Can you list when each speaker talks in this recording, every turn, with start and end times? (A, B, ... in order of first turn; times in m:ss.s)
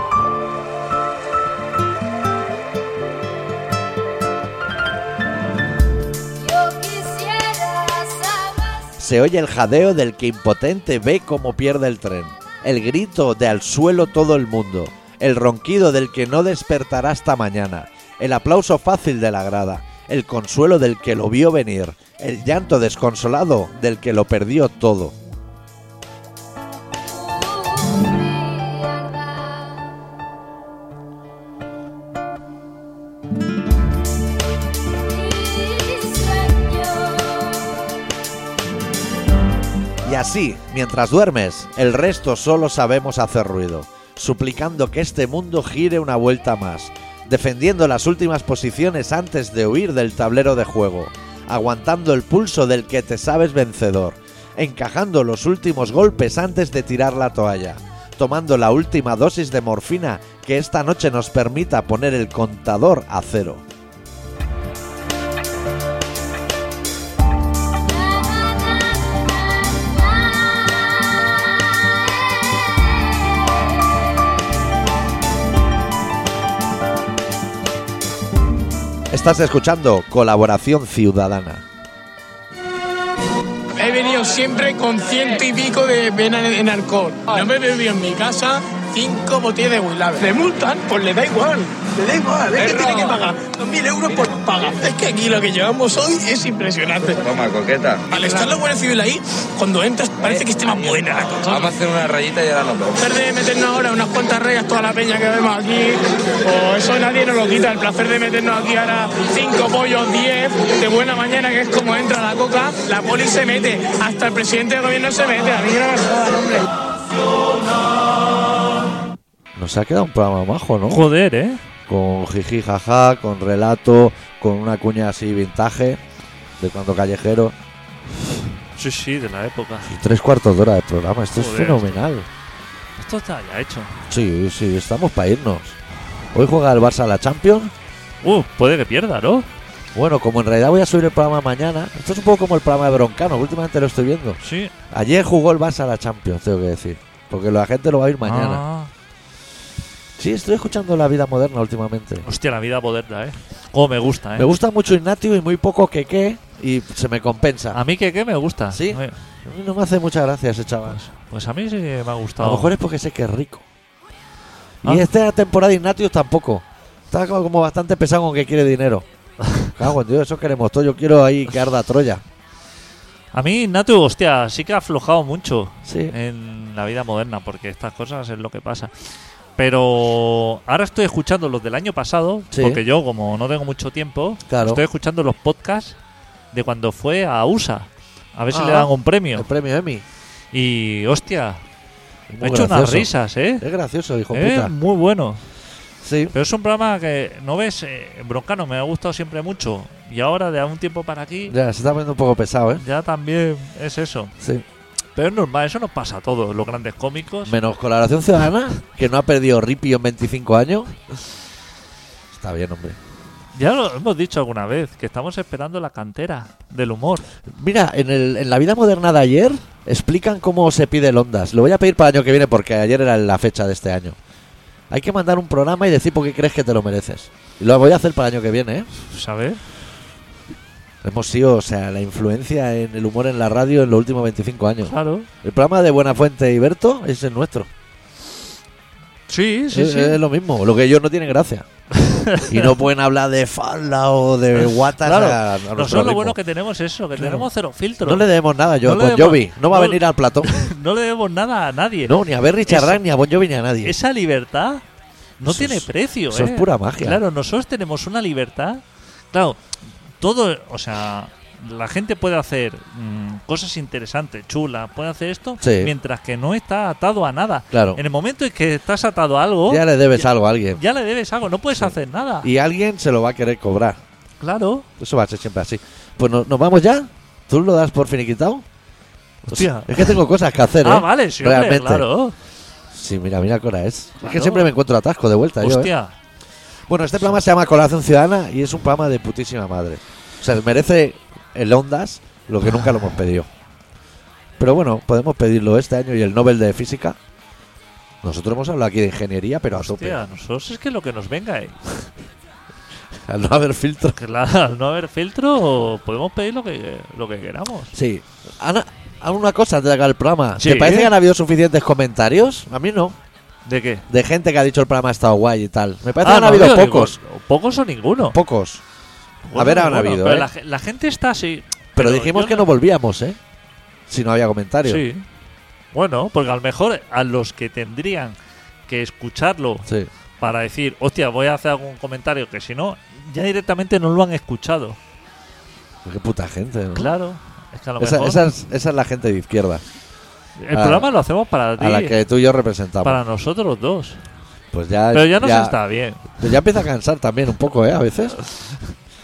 0:06.3-0:08.9 A
0:09.0-0:25.2 B
0:27.0-0:29.9 A
0:35.0-0:37.8 A
0:40.0-1:03.6 B
1:07.9-1:14.3 A
1:19.1-1:21.6 B
1:23.8-1:37.2 C
1:32.5-1:33.2 D
1:37.2-1:38.5 D
1:38.1-1:41.6 C
1:40.3-1:43.0 D
1:43.0-1:56.7 C
1:59.5-2:01.0 B
2:00.9-2:01.6 E
2:01.9-2:06.0 B
2:06.6-2:07.5 B
2:08.8-2:09.9 E
2:09.8-2:12.3 B
2:11.4-2:12.0 E
2:13.0-2:14.1 E
2:14.1-2:15.8 B
2:16.3-2:17.7 B
2:18.2-2:19.5 E
2:19.9-2:24.4 B
2:24.4-2:24.7 E
2:24.9-2:28.6 B
2:28.2-2:28.9 E
2:30.2-2:32.2 B
2:32.2-2:34.5 E
2:34.4-2:37.8 B
2:37.7-2:39.2 E
2:38.7-2:41.0 B
2:40.9-2:42.7 E
2:42.4-2:43.6 B
2:44.8-2:49.0 B
2:49.7-2:52.2 B
2:53.3-2:58.9 E
2:55.8-2:56.1 B
2:59.6-3:06.0 E
3:02.5-3:02.8 B
3:04.5-3:04.8 B
3:06.5-3:09.5 E
3:08.5-3:10.0 B
3:10.5-3:11.6 E
3:12.3-3:14.7 B
3:12.4-3:13.6 E
3:14.3-3:15.4 E
3:16.0-3:16.3 B
3:16.3-3:21.5 E
3:21.5-3:22.8 B
3:22.8-3:24.3 E
3:24.4-3:24.6 B
3:25.2-3:27.6 E
3:27.4-3:30.9 B
3:32.3-3:33.0 B
3:33.5-3:37.3 E
3:37.5-3:44.2 B
3:44.9-3:48.9 B
3:49.0-3:49.6 E
3:51.0-3:57.7 B
3:54.9-3:55.3 E
3:59.3-4:00.2 E
3:59.7-4:01.7 B
4:02.0-4:02.7 E
4:02.4-4:06.4 B
4:04.5-4:08.2 E
4:07.2-4:07.5 B
4:08.0-4:10.7 B
4:08.8-4:13.0 E
4:12.0-4:13.9 B
4:13.8-4:14.8 E
4:15.4-4:19.6 E
4:15.5-4:17.2 B
4:20.2-4:32.5 E
4:25.6-4:25.9 B
4:27.7-4:28.0 B
4:29.7-4:30.8 B
4:31.7-4:34.0 B
4:34.4-4:34.9 E
4:35.0-4:38.6 B
4:39.4-4:42.0 B
4:39.5-4:40.2 E
4:40.8-4:42.4 E
4:42.9-4:45.9 B
4:44.2-4:44.7 E
4:45.6-4:46.1 E
4:46.9-4:53.5 B
4:54.6-4:57.2 B
4:58.2-5:00.2 B
4:59.7-5:02.1 E
5:03.2-5:04.2 B
5:04.1-5:07.9 E
5:07.9-5:13.2 B
5:10.6-5:11.1 E
5:13.6-5:14.1 E
5:14.1-5:17.2 B
5:16.2-5:18.4 E
5:18.2-5:18.8 B
5:19.4-5:22.7 E
5:19.5-5:20.5 B
5:21.9-5:23.4 B
5:24.1-5:25.0 B
5:24.8-5:25.2 E
5:25.9-5:28.4 E
5:28.9-5:29.9 E
5:30.4-5:35.0 E
5:36.0-5:37.1 B
5:36.9-5:38.5 E
5:38.0-5:39.8 B
5:40.6-5:42.2 E
5:40.7-5:41.1 B
5:41.8-5:43.2 B
5:43.0-5:44.2 E
5:44.7-5:45.8 B
5:45.1-5:46.4 E
5:46.4-5:48.4 B